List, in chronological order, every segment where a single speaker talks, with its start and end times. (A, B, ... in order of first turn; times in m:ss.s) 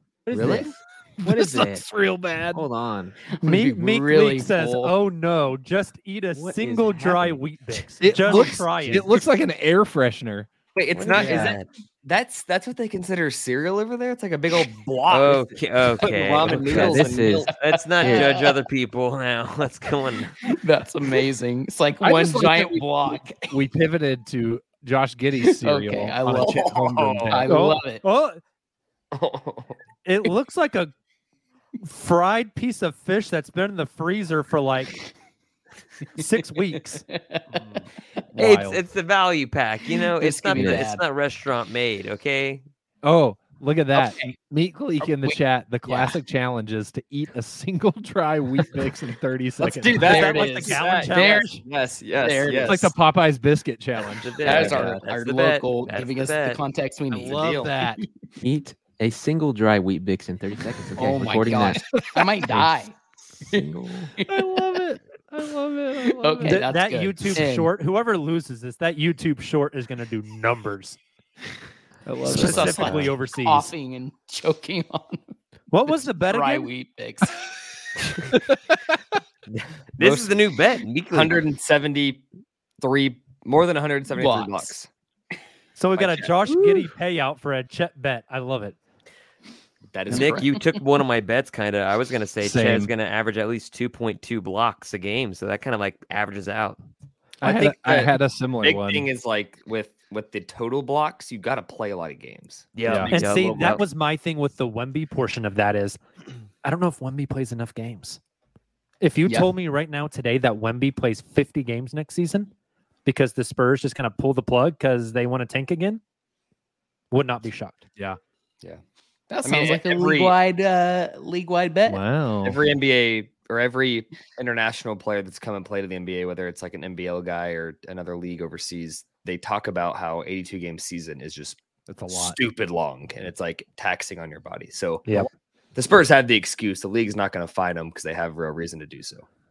0:00.3-0:01.8 A
0:00.3-0:02.6 B
0:00.3-0:00.7 C
0:02.5-0:03.2 A
0:03.3-0:04.9 C
0:03.4-0:09.1 D
0:06.3-0:07.4 A
0:08.0-0:10.5 B
0:08.2-0:09.1 A
0:10.7-0:15.5 E
0:10.9-0:11.6 F
0:11.2-0:11.5 A
0:15.1-0:20.4 F
0:16.0-0:17.6 E
0:16.4-0:17.5 A
0:17.7-0:18.5 C
0:20.4-0:23.6 C
0:22.0-0:22.7 E
0:22.0-0:22.8 B
0:23.5-0:27.4 B
0:25.6-0:28.0 C
0:26.4-0:26.9 E
0:27.0-0:27.4 F
0:27.5-0:28.4 D
0:29.1-0:29.8 E
0:30.0-0:30.9 D
0:31.8-0:35.0 D
0:36.1-0:37.0 D
0:37.0-0:37.6 C
0:38.3-0:38.8 B
0:38.4-0:42.6 F
0:39.9-0:41.0 C
0:40.5-0:40.8 A
0:43.0-0:50.5 B
0:43.9-0:44.3 C
0:45.9-0:46.2 C
0:49.6-0:52.9 E
0:50.0-0:51.6 D
0:50.1-0:51.6 C
0:52.2-0:52.9 C
0:52.6-0:54.9 B
0:54.0-0:56.6 F
0:54.4-0:58.1 C
0:54.5-0:55.0 E
0:57.1-0:58.0 B
0:57.2-0:57.7 E
0:58.4-1:01.9 A
1:01.0-1:03.0 C
1:03.4-1:04.1 A
1:04.2-1:06.6 B
1:06.1-1:07.7 C
1:06.4-1:11.0 D
1:12.0-1:13.0 B
1:12.2-1:13.7 D
1:12.3-1:15.2 C
1:15.7-1:16.7 D
1:16.3-1:17.4 C
1:20.0-1:21.4 F
1:20.0-1:20.3 E
1:21.1-1:22.2 E
1:22.8-1:24.9 E
1:24.1-1:24.7 C
1:25.8-1:28.8 D
1:26.0-1:26.3 E
1:26.5-1:26.8 B
1:29.9-1:30.4 E
1:30.1-1:30.6 C
1:30.1-1:36.8 F
1:32.4-1:32.9 B
1:37.4-1:42.7 E
1:37.4-1:39.1 B
1:42.7-1:43.8 F
1:42.8-1:43.1 B
1:43.1-1:46.0 D
1:46.6-1:48.2 D
1:49.0-1:52.5 D
1:49.2-1:49.5 C
1:53.0-1:56.0 D
1:57.1-1:57.8 D
1:59.3-2:02.0 C
1:59.4-2:00.4 E
2:01.9-2:02.6 B
2:02.4-2:11.6 E
2:11.9-2:12.4 B
2:12.1-2:15.2 E
2:15.7-2:19.2 E